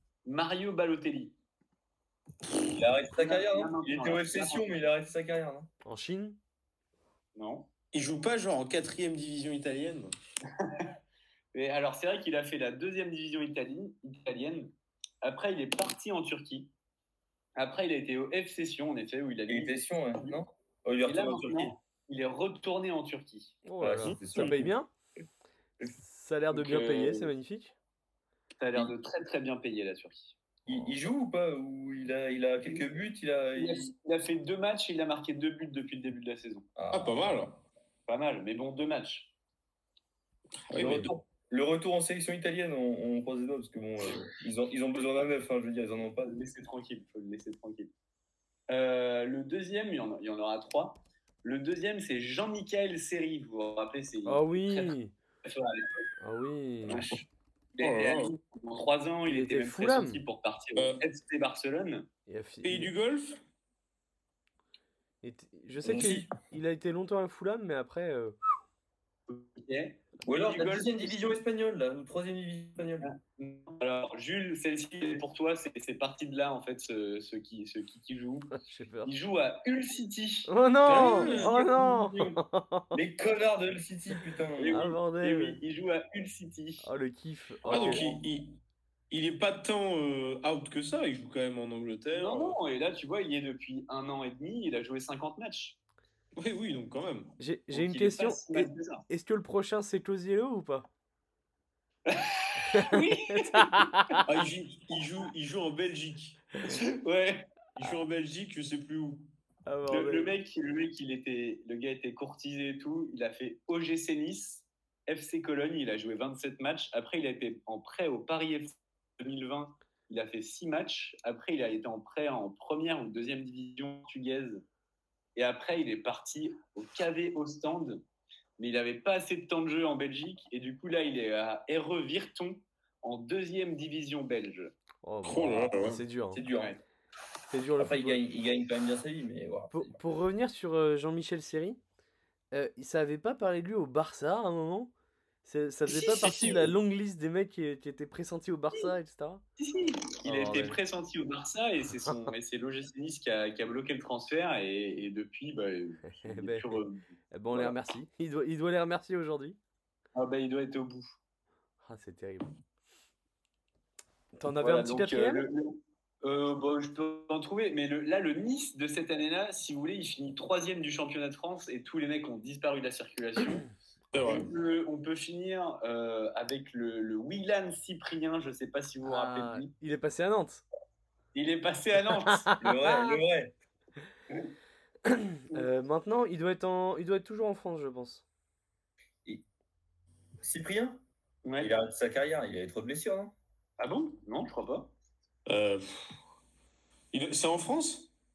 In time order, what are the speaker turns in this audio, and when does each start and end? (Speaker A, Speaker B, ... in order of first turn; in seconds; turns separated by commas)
Speaker A: 0.3-1.4, Speaker B: 2.7-5.7, Speaker A: 3.1-4.7, Speaker C: 5.8-6.4, Speaker A: 7.4-7.7, Speaker D: 7.9-10.1, Speaker A: 10.6-10.9, Speaker A: 11.5-14.7, Speaker A: 15.2-16.7, Speaker A: 17.6-19.8, Speaker B: 19.5-21.7, Speaker A: 21.0-23.6, Speaker C: 23.6-24.9, Speaker B: 23.8-24.7, Speaker C: 25.9-27.7, Speaker A: 26.5-27.3, Speaker A: 28.6-30.4, Speaker B: 30.7-33.9, Speaker A: 33.5-36.7, Speaker B: 36.8-37.1, Speaker D: 36.9-37.6, Speaker A: 38.1-39.3, Speaker D: 40.7-41.1, Speaker B: 40.7-46.4, Speaker A: 46.2-47.9, Speaker A: 48.7-56.1, Speaker C: 54.3-55.1, Speaker C: 56.2-57.1, Speaker A: 56.9-57.2, Speaker D: 57.0-57.2, Speaker A: 57.8-62.1, Speaker D: 57.8-58.3, Speaker C: 59.3-60.2, Speaker D: 60.8-61.0, Speaker C: 62.3-62.9, Speaker D: 62.6-63.4, Speaker C: 65.2-68.4, Speaker B: 65.8-66.3, Speaker A: 69.3-71.4, Speaker B: 70.3-73.1, Speaker A: 73.0-82.4, Speaker C: 78.5-79.1, Speaker C: 80.5-82.9, Speaker D: 80.9-81.5, Speaker B: 82.9-84.8, Speaker A: 84.6-86.8, Speaker C: 84.7-85.6, Speaker C: 86.8-88.0, Speaker A: 87.6-88.2, Speaker D: 87.7-88.6, Speaker D: 89.1-92.6, Speaker A: 92.1-95.8, Speaker D: 96.4-97.4, Speaker C: 97.4-100.9, Speaker A: 97.7-99.0, Speaker A: 102.1-104.2, Speaker C: 102.7-104.2, Speaker D: 104.2-106.5, Speaker A: 106.7-107.5, Speaker D: 107.8-109.3, Speaker C: 109.7-110.3, Speaker A: 109.9-124.6, Speaker A: 125.4-128.0, Speaker A: 128.6-134.8, Speaker C: 135.0-136.4, Speaker D: 135.2-136.0, Speaker B: 136.3-136.7, Speaker A: 136.5-136.8, Speaker C: 137.5-138.2, Speaker B: 137.8-139.9, Speaker C: 139.7-141.8, Speaker C: 142.5-144.9, Speaker C: 145.4-149.4, Speaker A: 145.9-146.7, Speaker A: 149.6-157.7, Speaker C: 150.2-150.8, Speaker C: 156.1-159.6, Speaker A: 160.1-161.2, Speaker C: 161.8-162.5, Speaker C: 164.4-165.4, Speaker A: 164.6-179.7, Speaker D: 174.1-174.5, Speaker C: 179.0-180.6, Speaker A: 181.3-182.5, Speaker C: 182.4-183.1, Speaker B: 182.6-183.5, Speaker C: 185.1-188.2, Speaker B: 190.4-191.0, Speaker A: 191.4-191.7, Speaker B: 191.6-193.3, Speaker A: 193.8-194.9, Speaker D: 195.5-196.2, Speaker D: 197.1-198.1